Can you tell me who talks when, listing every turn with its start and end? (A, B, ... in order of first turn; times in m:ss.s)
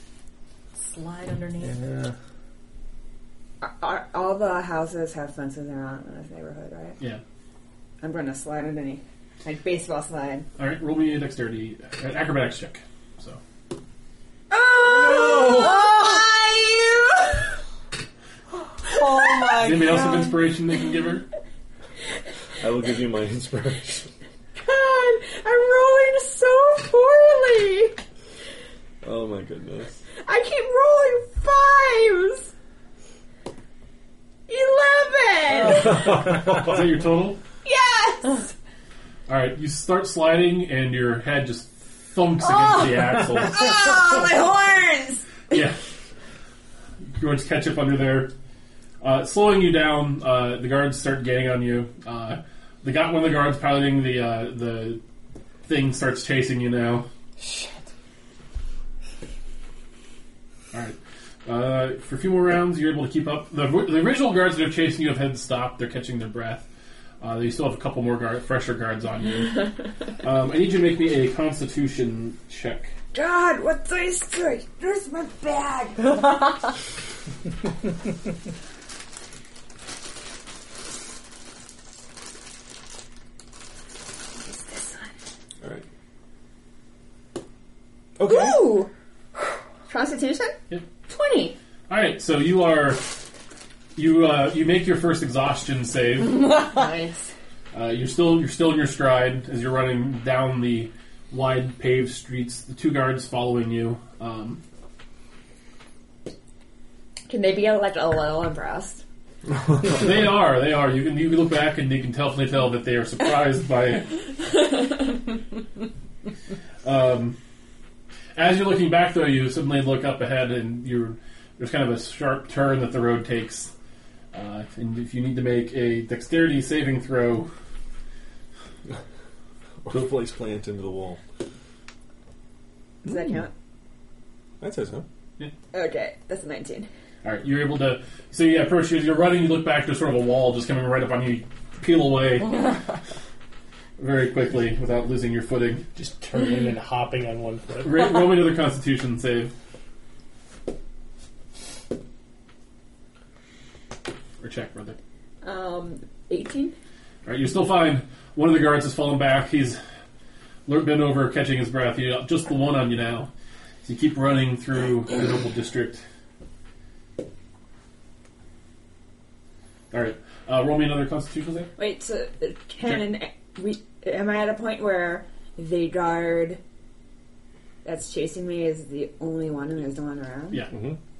0:00.8-0:01.8 A
0:01.7-0:02.1 B
0:03.6-0:07.0 C
0:08.0-0:10.5 C
0:10.6-0:13.4 D
0:14.5-0:17.6 C
0:18.9-0:20.4 A
0:19.6-0:21.3 D
0:22.6-0:24.1 E
0:24.6-0:28.0 C
0:29.0-0:30.0 E
0:30.2-0:32.5 C
0:34.5-0:36.2 C
0:35.9-0:37.4 D
0:37.6-0:38.5 C
0:39.3-0:43.7 D
0:43.4-0:45.3 C
0:45.5-0:45.8 D
0:47.1-0:48.3 D
0:49.0-0:55.0 D
0:55.7-0:57.1 D
0:57.4-0:57.9 A
1:00.7-1:06.7 D
1:07.2-1:12.9 D
1:13.1-1:16.2 C
1:24.5-1:25.1 C
1:28.2-1:28.7 E
1:28.2-1:28.9 C
1:29.9-1:31.6 C
1:31.9-1:33.1 D
1:34.0-1:36.5 D
1:36.5-1:37.3 C
1:37.7-1:44.6 D
1:47.3-1:49.0 C
1:49.8-1:54.2 D
1:56.8-1:57.4 D
1:58.4-2:03.7 D
2:04.3-2:07.5 D
2:09.8-2:11.2 E
2:13.0-2:13.5 C
2:14.6-2:15.1 E
2:15.7-2:16.9 C
2:17.2-2:22.8 D
2:24.0-2:25.9 D
2:26.0-2:28.2 B
2:27.8-2:29.5 D
2:34.4-2:35.0 D
2:35.4-2:36.8 C
2:37.2-2:39.8 D
2:40.7-2:43.3 D
2:43.8-2:46.0 D
2:49.9-2:51.7 D
2:51.8-2:56.6 C
2:57.8-3:00.6 C
3:00.7-3:01.0 E